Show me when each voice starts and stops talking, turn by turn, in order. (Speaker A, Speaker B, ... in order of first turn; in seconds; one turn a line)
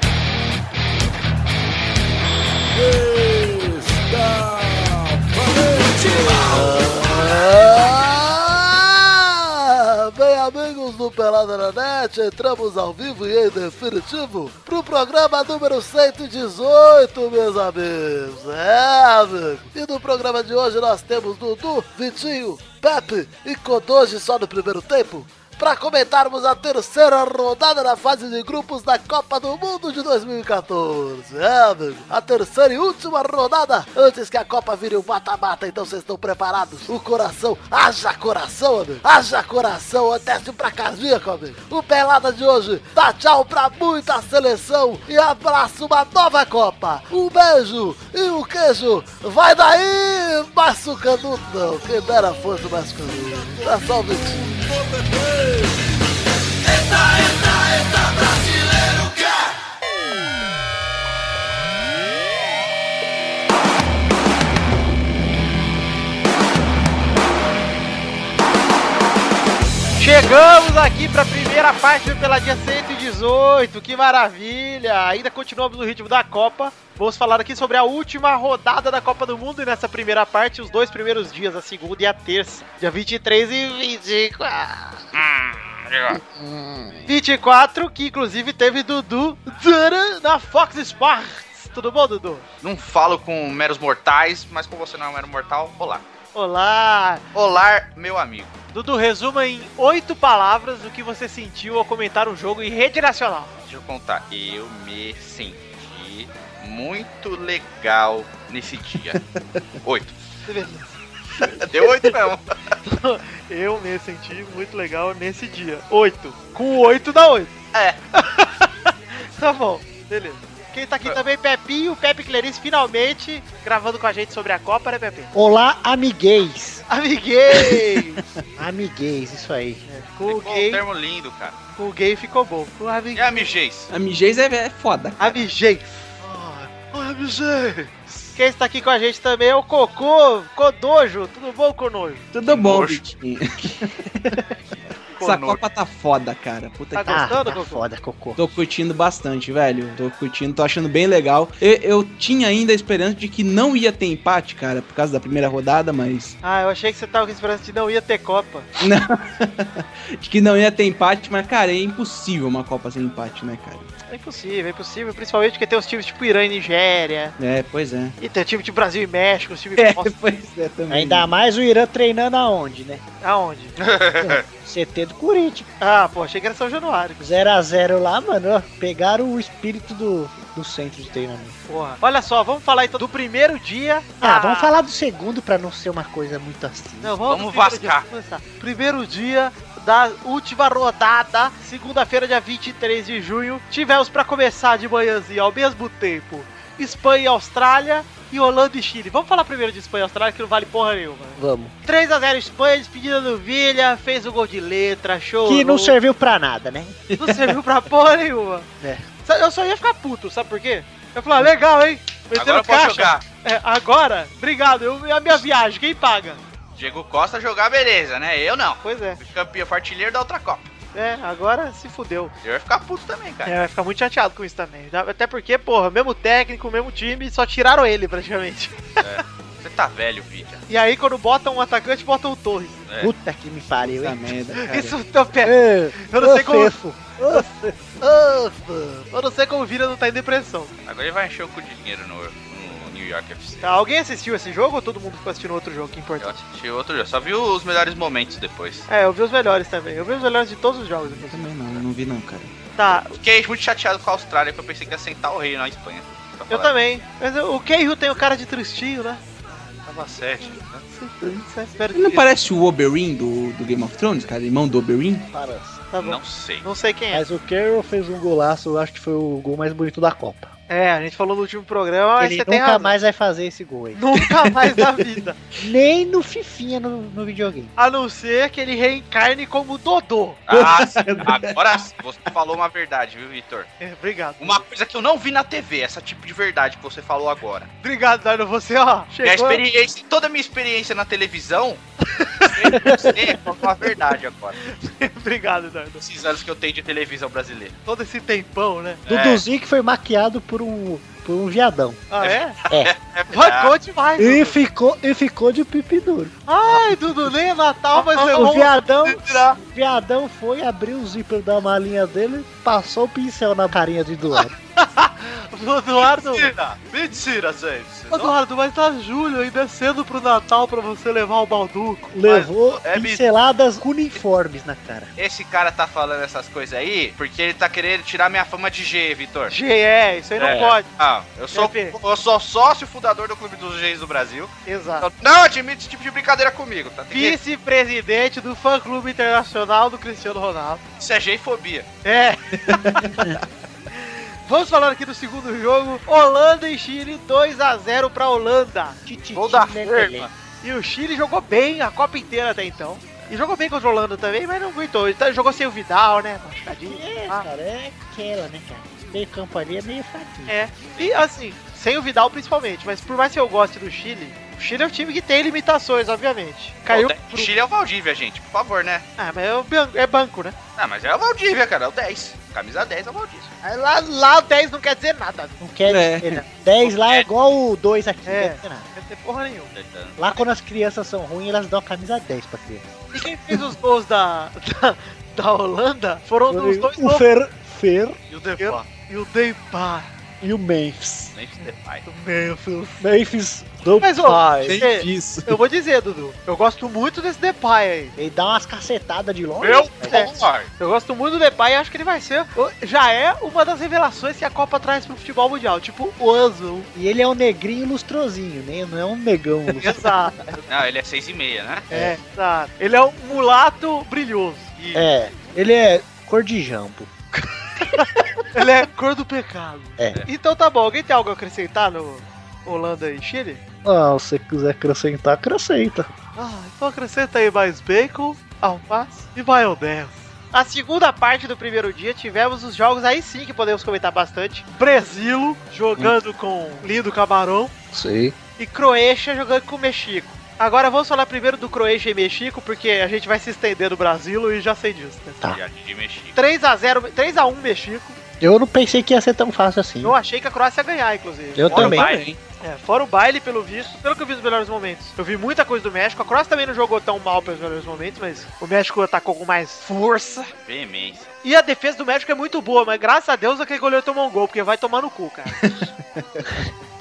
Speaker A: 2.7-7.0
Speaker B: 6.4-54.4
Speaker A: 53.1-55.9
Speaker A: 56.7-59.4
Speaker C: 70.0-85.0
Speaker D: 85.1-86.2
Speaker C: 87.1-92.4
Speaker D: 92.6-96.0
Speaker C: 96.3-97.2
Speaker D: 97.3-98.6
Speaker C: 98.7-103.5
Speaker D: 103.6-109.2
Speaker D: 109.8-110.2
Speaker C: 110.5-111.0
Speaker D: 111.6-112.8
Speaker C: 112.8-117.5
Speaker D: 117.7-118.0
Speaker C: 118.1-125.3
Speaker E: 125.3-126.8
Speaker C: 126.9-128.2
Speaker E: 128.6-129.8
Speaker C: 129.8-130.8
Speaker D: 130.2-131.6
Speaker C: 131.8-133.3
Speaker D: 133.1-133.9
Speaker F: 133.9-135.5
Speaker C: 135.2-136.6
Speaker D: 136.8-138.3
Speaker C: 138.3-142.3
Speaker F: 142.3-144.4
Speaker D: 142.5-143.0
Speaker D: 145.2-145.6
Speaker F: 145.2-147.3
Speaker C: 146.9-147.8
Speaker E: 147.1-148.5
Speaker F: 148.3-156.3
Speaker C: 156.4-158.7
Speaker F: 158.8-163.9
Speaker C: 164.1-167.3
Speaker F: 167.4-168.2
Speaker C: 168.2-170.1
Speaker F: 169.8-171.3
Speaker E: 170.9-173.0
Speaker C: 173.2-173.8
Speaker D: 173.8-174.4
Speaker E: 174.2-175.7
Speaker C: 175.8-177.4
Speaker E: 177.2-181.6
Speaker C: 181.7-184.7
Speaker E: 184.2-187.2
Speaker C: 187.0-205.9
Speaker D: 187.2-188.1
Speaker E: 201.4-201.7
Speaker E: 205.4-207.0
Speaker C: 207.2-208.7
Speaker E: 208.8-209.1
Speaker C: 209.2-216.4
Speaker D: 212.3-213.2
Speaker D: 216.8-220.7
Speaker C: 218.8-219.2
Speaker C: 220.9-222.3
Speaker D: 222.4-223.5
Speaker C: 223.4-229.2
Speaker D: 229.0-230.6
Speaker C: 230.7-232.8
Speaker E: 233.0-234.4
Speaker F: 233.8-234.9
Speaker C: 234.5-236.7
Speaker E: 235.4-237.9
Speaker C: 239.1-240.7
Speaker D: 240.8-243.7
Speaker C: 243.6-246.4
Speaker D: 246.2-248.9
Speaker C: 248.9-251.5
Speaker F: 251.1-252.6
Speaker C: 252.8-253.2
Speaker D: 253.1-256.7
Speaker C: 256.5-259.8
Speaker D: 259.9-260.8
Speaker C: 260.4-262.2
Speaker F: 261.9-265.3
Speaker E: 265.3-265.8
Speaker C: 265.9-267.2
Speaker D: 266.0-266.6
Speaker E: 267.1-270.5
Speaker C: 270.7-272.9
Speaker E: 272.2-274.0
Speaker C: 273.9-275.4
Speaker E: 275.6-277.7
Speaker C: 277.8-280.4
Speaker D: 280.5-283.7
Speaker F: 280.5-281.5
Speaker C: 283.8-284.6
Speaker D: 284.4-287.7
Speaker C: 287.8-289.6
Speaker D: 289.2-291.8
Speaker C: 292.1-293.1
Speaker D: 292.5-294.6
Speaker E: 292.7-293.1
Speaker C: 294.6-296.0
Speaker D: 296.0-297.8
Speaker C: 297.9-299.0
Speaker D: 299.1-299.4
Speaker E: 299.1-302.1
Speaker C: 302.1-302.6
Speaker D: 302.2-303.7
Speaker C: 303.3-304.6
Speaker E: 304.2-307.0
Speaker C: 306.5-308.7
Speaker D: 308.1-308.5
Speaker E: 308.3-314.5
Speaker D: 309.1-309.6
Speaker C: 314.8-316.5
Speaker D: 316.0-318.3
Speaker C: 318.1-322.2
Speaker E: 322.1-325.1
Speaker D: 322.2-323.2
Speaker D: 325.2-329.6
Speaker C: 329.5-330.9
Speaker D: 330.4-337.4
Speaker C: 331.5-332.0
Speaker C: 334.6-335.1
Speaker C: 337.1-340.8
Speaker D: 341.0-341.9
Speaker C: 342.0-343.1
Speaker F: 342.7-343.4
Speaker C: 343.9-349.0
Speaker E: 349.1-350.3
Speaker D: 349.3-350.3
Speaker C: 350.6-357.4
Speaker E: 356.8-360.7
Speaker C: 360.5-367.5
Speaker D: 360.9-361.2
Speaker D: 366.9-369.1
Speaker C: 369.2-370.6
Speaker D: 370.8-373.5
Speaker C: 373.6-375.6
Speaker E: 375.6-378.9
Speaker F: 375.9-376.4
Speaker D: 376.8-377.3
Speaker C: 378.2-379.7
Speaker D: 379.7-380.4
Speaker E: 380.2-382.9
Speaker C: 383.1-387.2
Speaker E: 386.5-388.2
Speaker D: 388.3-388.9
Speaker C: 388.6-390.1
Speaker E: 390.4-391.4
Speaker D: 391.3-392.0
Speaker C: 391.6-393.0
Speaker E: 393.0-394.8
Speaker C: 394.0-398.1
Speaker F: 394.6-395.6
Speaker E: 398.2-400.3
Speaker D: 399.6-400.7
Speaker C: 400.1-406.9
Speaker E: 406.9-410.6
Speaker C: 409.8-410.4
Speaker D: 410.7-411.9
Speaker E: 411.9-412.1
Speaker C: 411.9-414.8
Speaker D: 414.8-415.1
Speaker E: 414.9-417.1
Speaker C: 417.9-423.6
Speaker E: 423.8-426.1
Speaker C: 426.4-437.7
Speaker E: 437.9-438.3
Speaker C: 438.6-445.4
Speaker D: 445.5-446.4
Speaker C: 446.3-448.2
Speaker E: 448.4-450.2
Speaker C: 450.0-451.7
Speaker E: 451.5-452.1
Speaker D: 451.7-452.3
Speaker F: 451.7-452.4
Speaker C: 452.6-459.8
Speaker F: 459.9-460.5
Speaker D: 460.5-461.3
Speaker C: 461.4-465.6
Speaker F: 465.6-466.6